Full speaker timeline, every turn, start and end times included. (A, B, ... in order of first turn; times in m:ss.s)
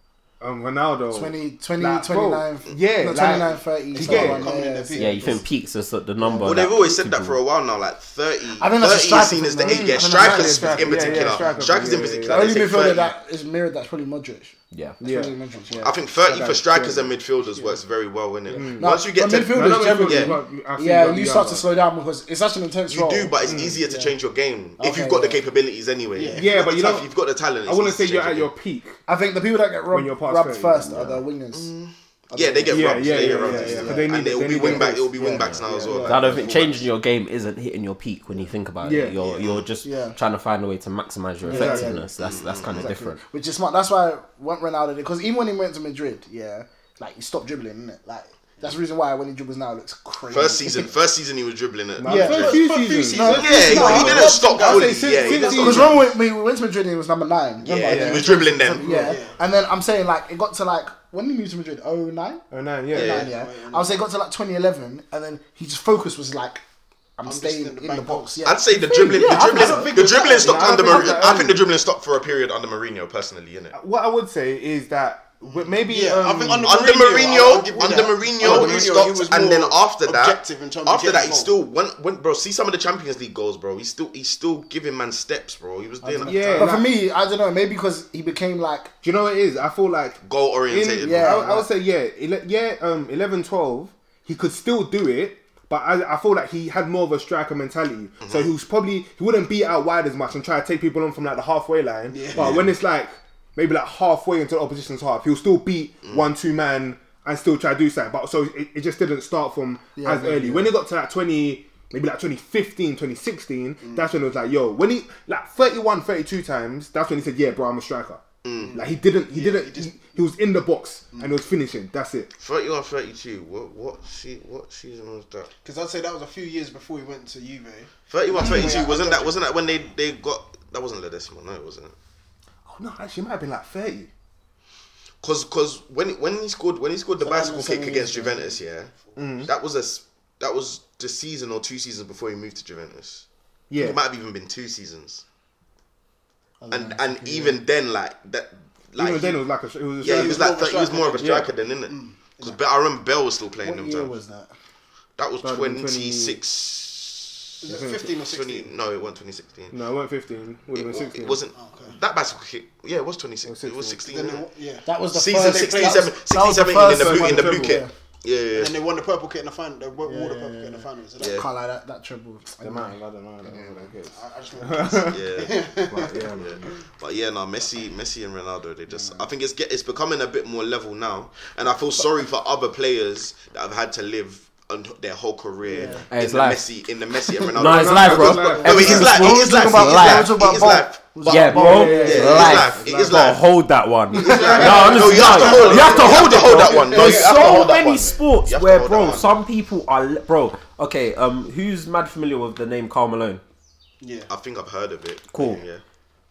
0:00.4-0:04.6 A
0:01.1-0:05.2 B
0:03.3-0:05.5 C
0:05.0-0:07.4 D
0:06.2-0:06.6 B
0:06.4-0:13.1 E
0:08.6-0:11.5 B
0:09.6-0:12.7 A
0:12.2-0:17.0 B
0:14.7-0:15.0 D
0:15.0-0:15.4 A
0:15.8-0:20.4 E
0:16.3-0:17.0 A
0:18.5-0:21.7 A
0:18.6-0:24.2 B
0:22.9-0:28.5 E
0:23.4-0:23.8 A
0:24.8-0:25.4 B
0:26.1-0:26.7 C
0:26.3-0:27.1 A
0:27.6-0:29.0 A
0:29.1-0:31.7 B
0:29.9-0:31.2 A
0:31.5-0:36.9 E
0:32.3-0:36.4 B
0:32.7-0:36.0 A
0:35.7-0:36.0 C
0:36.1-0:43.2 D
0:38.8-0:39.2 A
0:39.2-0:39.7 E
0:39.8-0:40.2 B
0:41.4-0:42.1 B
0:41.5-0:42.0 A
0:42.2-0:42.9 E
0:42.6-0:50.9 B
0:50.3-0:52.6 E
0:52.0-0:56.1 A
0:52.0-0:54.4 B
0:52.3-0:56.1 C
0:53.2-0:55.9 E
0:55.5-1:06.6 B
0:57.6-0:59.1 E
0:57.8-0:59.1 A
0:58.9-0:59.4 C
1:02.5-1:03.2 A
1:02.9-1:03.3 E
1:02.9-1:04.0 C
1:07.2-1:09.9 B
1:07.3-1:08.5 C
1:08.4-1:13.8 E
1:09.0-1:11.7 A
1:09.2-1:11.3 C
1:13.7-1:19.1 A
1:15.4-1:21.5 C
1:16.6-1:26.7 E
1:26.0-1:28.9 B
1:26.2-1:26.9 A
1:29.0-2:02.3 A
1:30.2-1:31.4 E
1:31.0-1:31.7 B
1:38.2-1:38.5 E
1:42.1-1:42.7 C
1:42.4-1:42.7 E
1:50.0-1:50.7 B
1:53.8-1:54.2 C
1:58.4-1:58.8 E
1:58.6-2:00.0 C
2:01.1-2:01.4 C
2:02.4-2:05.5 E
2:05.6-2:09.4 C
2:08.1-2:12.0 E
2:12.7-2:14.1 A
2:15.2-2:23.2 E
2:17.2-2:18.5 B
2:19.2-2:19.5 A
2:23.7-2:24.0 A
2:23.8-2:25.2 E
2:26.6-2:27.6 B
2:26.7-2:29.4 E
2:29.0-2:30.5 A
2:30.0-2:34.1 E
2:30.0-2:32.6 C
2:31.2-2:31.5 A
2:33.6-2:34.5 B
2:35.2-2:37.5 E
2:35.4-2:36.4 A
2:37.6-2:38.7 C
2:37.7-2:38.1 A
2:38.2-2:39.8 E
2:39.7-2:41.4 A
2:40.7-2:44.5 E
2:41.5-2:42.0 C
2:43.5-2:44.0 A
2:44.0-2:46.2 C
2:44.8-2:47.9 B
2:45.1-2:48.8 E
2:46.7-2:47.9 A
2:48.6-2:51.5 C
2:50.0-2:53.9 B
2:51.2-2:51.5 E
2:52.6-2:55.3 A
2:54.1-2:56.7 C
2:55.1-2:55.7 E
2:55.9-2:56.7 A
2:56.3-3:13.4 E
3:05.7-3:06.0 B
3:06.1-3:06.6 D
3:07.5-3:10.4 D
3:07.6-3:09.2 A
3:08.4-3:12.5 B
3:11.3-3:23.4 D
3:11.5-3:13.4 A
3:14.1-3:17.7 C
3:14.2-3:19.4 E
3:14.3-3:14.8 B
3:24.0-3:24.3 C
3:24.3-3:25.8 E
3:25.4-3:25.6 D